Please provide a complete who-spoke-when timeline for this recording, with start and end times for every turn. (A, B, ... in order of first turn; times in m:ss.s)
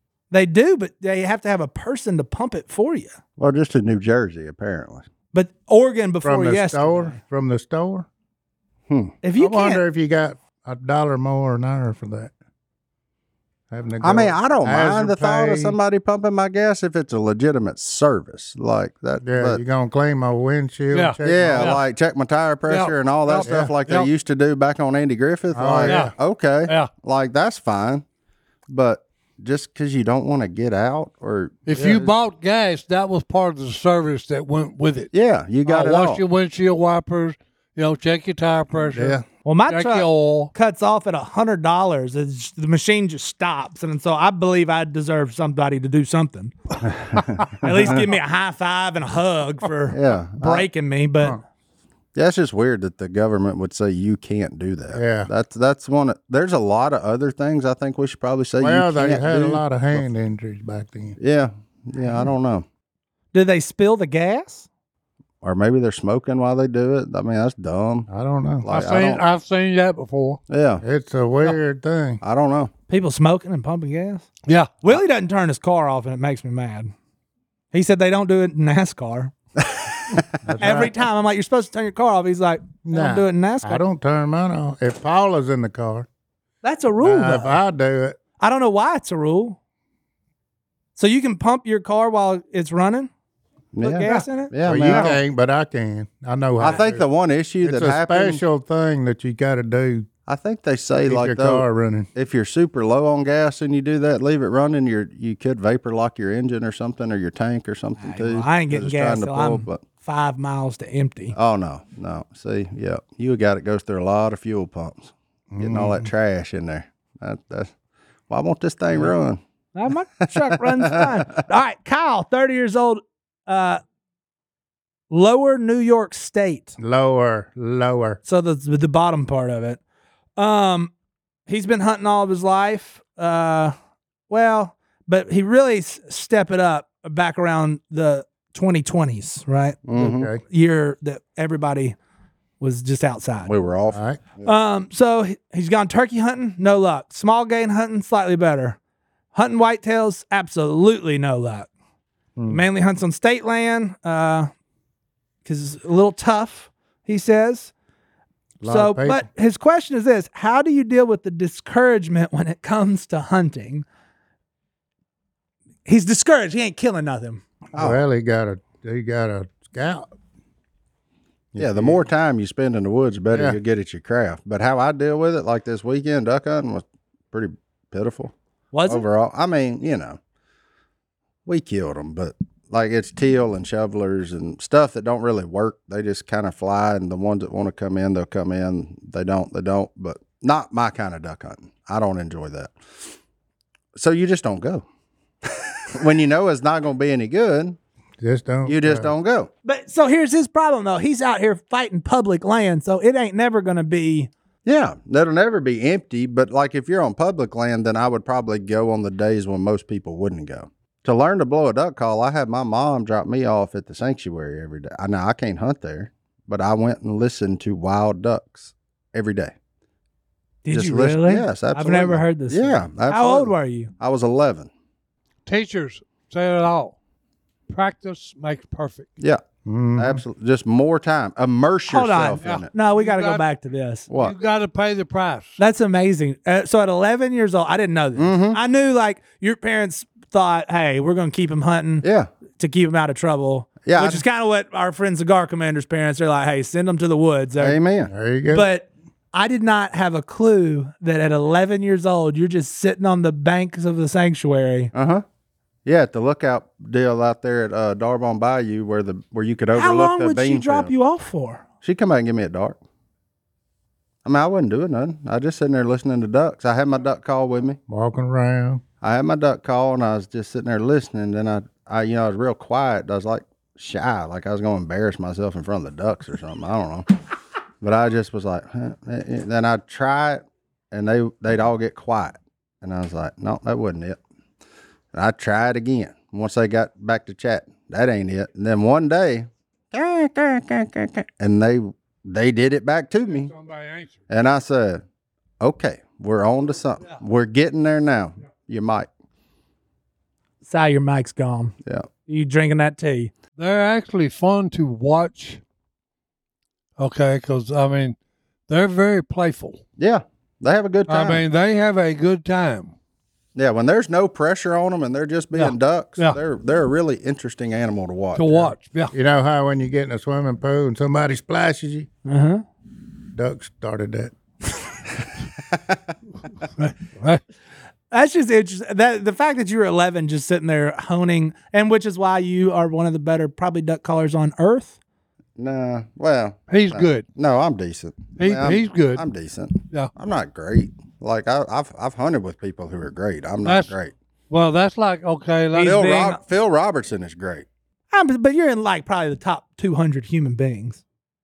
0:00.3-0:03.2 A
0:03.4-0:05.1 B
0:05.3-0:07.2 A
0:06.2-0:08.1 C
0:08.9-0:09.2 B
0:09.2-0:09.8 A
0:09.4-0:12.3 C
0:13.7-0:15.8 C
0:14.0-0:19.6 B
0:19.2-0:21.8 C
0:20.9-0:21.8 D
0:21.2-0:28.0 B
0:22.7-0:24.1 D
0:23.4-0:23.7 C
0:25.5-0:26.1 C
0:25.9-0:26.1 D
0:28.7-0:32.1 B
0:31.7-0:35.1 D
0:35.1-0:36.2 B
0:35.6-0:40.5 D
0:38.9-0:39.2 C
0:39.4-0:46.5 A
0:46.8-0:47.8 B
0:47.6-0:51.4 A
0:49.9-0:50.7 B
0:52.2-1:00.0 B
0:54.9-0:55.3 C
0:58.6-1:01.2 C
1:01.2-1:02.7 B
1:03.3-1:04.7 A
1:05.4-1:08.1 B
1:08.1-1:08.7 C
1:08.6-1:09.2 B
1:08.7-1:10.4 D
1:10.5-1:10.8 B
1:10.8-1:12.2 C
1:12.2-1:12.7 B
1:12.9-1:14.3 A
1:14.5-1:14.7 D
1:14.8-1:16.9 A
1:17.7-1:19.3 A
1:19.7-1:20.8 B
1:20.4-1:21.0 C
1:20.6-1:23.8 A
1:22.9-1:26.1 C
1:26.6-1:27.6 A
1:27.0-1:28.2 C
1:28.4-1:29.6 A
1:31.0-1:33.1 A
1:33.7-1:35.2 B
1:33.8-1:34.5 A
1:34.6-1:37.0 C
1:36.6-1:38.4 B
1:37.6-1:40.1 C
1:40.3-1:49.8 B
1:41.1-1:42.1 C
1:48.0-1:51.4 A
1:51.4-1:57.7 B
1:55.5-1:56.1 C
1:58.3-1:59.4 B
1:59.8-2:03.8 A
2:00.8-2:01.4 B
2:05.1-2:06.8 A
2:06.8-2:08.2 C
2:08.3-2:09.8 A
2:10.4-2:10.9 A
2:11.5-2:13.8 A
2:14.3-2:19.8 A
2:19.9-2:20.3 B
2:19.9-2:20.4 C
2:20.5-2:22.0 A
2:22.6-2:23.5 A
2:23.4-2:24.5 B
2:23.9-2:24.2 C
2:24.4-2:28.8 A
2:29.3-2:31.7 A
2:32.4-2:32.6 C
2:32.5-2:34.5 A
2:35.4-2:37.7 A
2:38.6-2:39.3 C
2:38.6-2:43.8 A
2:45.9-2:47.4 A
2:47.7-2:50.1 C
2:51.5-2:52.0 C
2:51.6-2:58.3 B
2:53.3-2:53.6 C
2:58.7-2:59.0 A
2:58.9-3:00.2 B
3:01.5-3:12.7 B
3:14.0-3:14.8 B
3:15.4-3:17.8 B
3:18.2-3:19.1 C
3:18.7-3:19.5 B
3:19.6-3:24.3 A
3:24.6-3:39.5 B
3:40.6-3:43.9 A
3:40.7-3:44.7 B
3:45.5-3:47.0 D
3:47.7-3:49.1 D
3:49.6-3:50.2 C
3:50.0-3:52.7 B
3:51.9-3:54.1 A
3:52.4-3:53.4 D
3:54.1-3:54.4 B
3:54.1-3:55.6 D
3:55.6-4:02.0 A
3:58.2-3:58.6 B
4:02.0-4:02.3 B
4:02.6-4:07.8 A
4:03.8-4:04.2 B
4:07.6-4:08.1 B
4:08.1-4:08.7 C
4:08.5-4:14.9 A
4:15.0-4:15.2 B
4:15.8-4:20.9 B
4:19.8-4:21.6 A
4:21.8-4:22.8 B
4:24.2-4:27.8 B
4:27.9-4:28.8 C
4:29.0-4:37.1 B
4:37.8-4:44.2 B
4:45.1-4:53.5 B
4:53.3-4:54.2 D
4:54.3-4:55.0 B
4:55.6-4:59.1 B
5:00.6-5:01.8 A
5:02.3-5:03.3 A
5:03.6-5:05.6 D
5:07.0-5:08.2 D
5:08.7-5:09.8 D
5:10.0-5:11.4 B
5:11.1-5:12.9 D
5:13.6-5:18.7 B
5:15.5-5:16.4 D
5:18.4-5:19.1 D
5:19.1-5:22.1 C
5:22.3-5:22.6 A
5:23.3-5:24.4 C
5:26.8-5:27.4 D
5:28.1-5:35.0 A
5:35.6-5:44.1 B
5:36.7-5:37.2 D
5:38.4-5:39.2 D
5:43.6-5:43.9 D
5:44.5-5:46.1 D
5:45.7-5:46.4 A
5:45.8-5:47.7 B
5:48.1-5:51.0 A